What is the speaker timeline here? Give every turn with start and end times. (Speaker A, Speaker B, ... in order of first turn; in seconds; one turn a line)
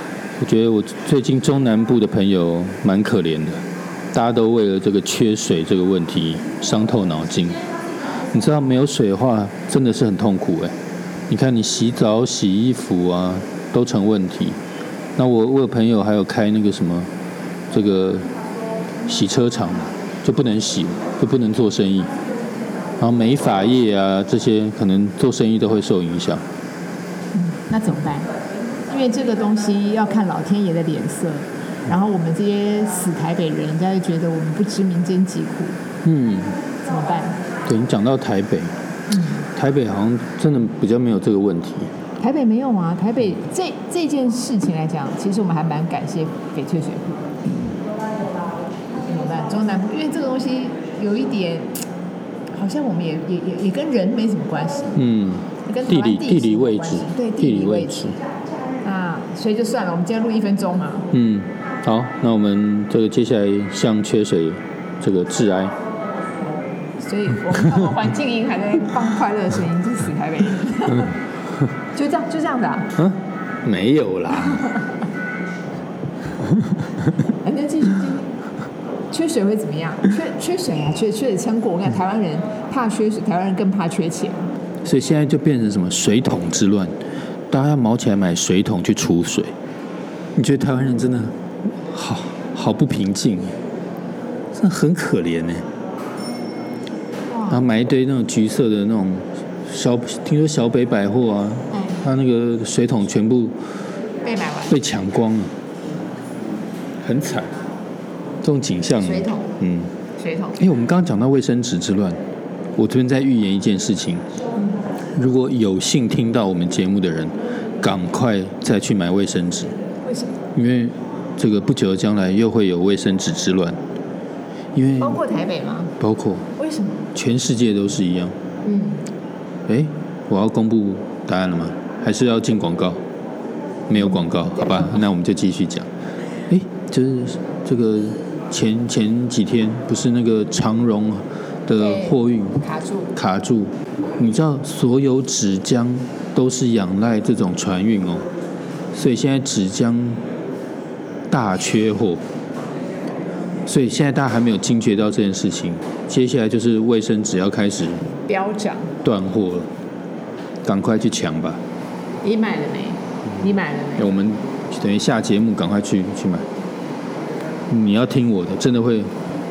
Speaker A: 0.4-3.6
Speaker A: 4.1-7.6
Speaker A: 8.3-10.7
Speaker A: 11.3-14.6
Speaker A: 15.2-17.1
Speaker A: 17.7-18.3
Speaker A: 19.1-22.1
Speaker A: 23.0-26.4
Speaker B: 27.4-28.3
Speaker B: 28.9-35.8
Speaker A: 36.0-36.6
Speaker B: 36.9-37.4
Speaker A: 37.7-38.8
Speaker B: 39.1-39.5
Speaker A: 39.5-41.9
Speaker B: 42.2-47.3
Speaker B: 49.0-51.8
Speaker B: 52.5-55.0
Speaker A: 55.0-58.2
Speaker B: 55.7-58.2
Speaker B: 58.8-61.1
Speaker A: 61.1-65.8
Speaker B: 67.0-71.2
Speaker B: 71.9-73.0
Speaker A: 73.0-74.8
Speaker B: 77.2-78.3
Speaker B: 79.1-84.5
Speaker A: 84.8-86.9
Speaker A: 87.5-89.5
Speaker A: 90.4-93.6
Speaker A: 94.5-95.7
Speaker B: 97.3-97.7
Speaker A: 97.5-103.5
Speaker B: 101.7-102.0
Speaker B: 104.2-104.8
Speaker A: 104.7-105.5
Speaker A: 107.0-107.5
Speaker A: 108.4-109.9
Speaker B: 109.0-109.5
Speaker B: 110.2-110.6
Speaker A: 110.6-112.2
Speaker A: 112.8-114.2
Speaker A: 115.2-119.8
Speaker B: 120.0-120.4
Speaker A: 120.5-123.8
Speaker A: 124.8-125.2
Speaker B: 125.0-125.9
Speaker A: 126.0-126.5
Speaker B: 126.6-127.1
Speaker A: 127.2-128.3
Speaker B: 128.6-129.0
Speaker A: 129.7-133.0
Speaker A: 133.9-135.9
Speaker A: 136.5-142.6
Speaker B: 141.7-143.1
Speaker A: 143.2-148.3
Speaker A: 148.9-150.2
Speaker A: 151.3-152.2
Speaker A: 153.7-158.1
Speaker B: 158.2-158.9
Speaker A: 159.0-159.7
Speaker A: 160.6-161.6
Speaker B: 162.2-164.2
Speaker A: 164.0-166.5
Speaker A: 167.7-169.1